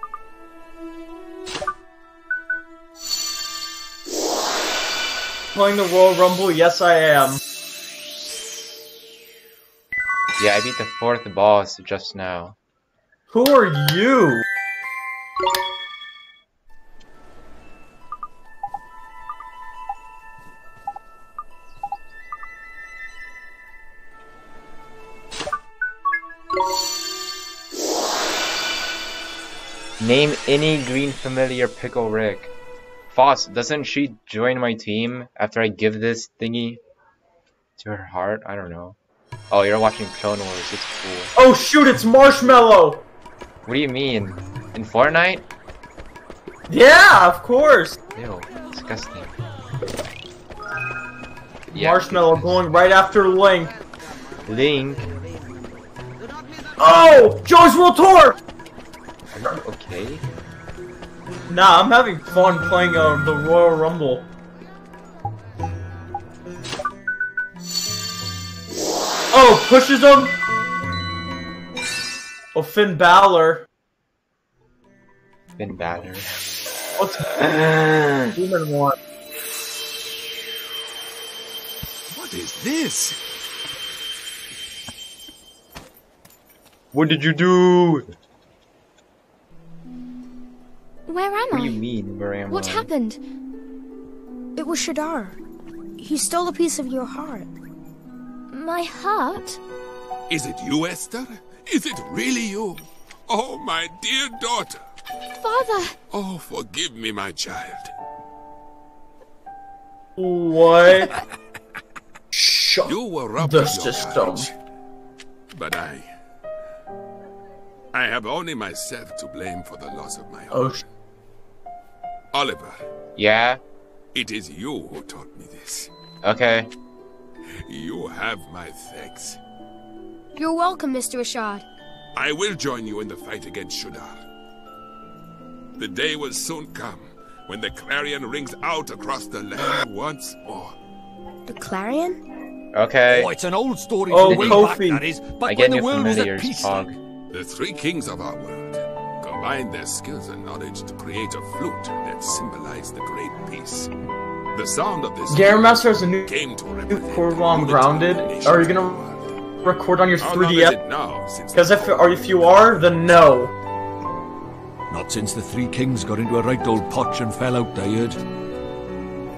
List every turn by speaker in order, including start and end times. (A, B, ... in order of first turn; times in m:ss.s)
0:05.5-0:07.4 A
0:10.4-0:12.6 B
0:13.3-0:14.4 A
0:30.0-0:32.5 B
0:33.1-0:36.8 B
0:37.8-0:39.0 B
0:39.5-0:41.3 B
0:41.4-0:43.0 A
0:43.6-0:45.4 B
0:46.7-0:48.0 A
0:48.1-0:49.3 B
0:51.7-0:52.6 B
0:51.7-0:53.7 A
0:54.5-0:55.1 B
0:56.8-0:58.4 A
0:59.3-1:00.2 B
1:01.5-1:04.2 A
1:09.3-1:10.4 A
1:12.5-1:13.7 A
1:15.6-1:16.3 B
1:17.0-1:17.3 A
1:17.2-1:18.4 B
1:18.4-1:19.0 A
1:22.1-1:23.2 C
1:26.9-1:28.0 B
1:31.0-1:31.8 D
1:31.5-1:32.9 B
1:32.5-1:33.2 D
1:34.6-1:35.4 E
1:36.0-1:37.5 E
1:38.5-1:39.6 D
1:40.3-1:44.8 C
1:45.4-1:46.0 D
1:46.1-1:47.9 C
1:50.2-1:51.1 A
1:52.3-1:54.5 A
1:52.8-1:54.5 C
1:55.5-1:56.1 C
1:57.9-2:00.8 C
2:00.5-2:00.8 A
2:02.3-2:02.8 C
2:03.2-2:03.6 B
2:04.1-2:05.9 C
2:06.2-2:06.7 B
2:07.6-2:09.4 C
2:10.4-2:11.6 E
2:12.1-2:14.2 C
2:15.8-2:20.7 C
2:21.5-2:22.2 E
2:22.7-2:23.3 B
2:23.1-2:26.9 F
2:24.1-2:25.0 A
2:24.2-2:24.7 B
2:25.4-2:26.9 B
2:27.3-2:33.9 C
2:34.5-2:35.5 C
2:35.3-2:36.4 A
2:36.2-2:39.3 C
2:36.9-2:39.0 A
2:39.6-2:40.8 A
2:40.2-2:41.9 C
2:41.5-2:43.5 A
2:44.9-2:48.2 F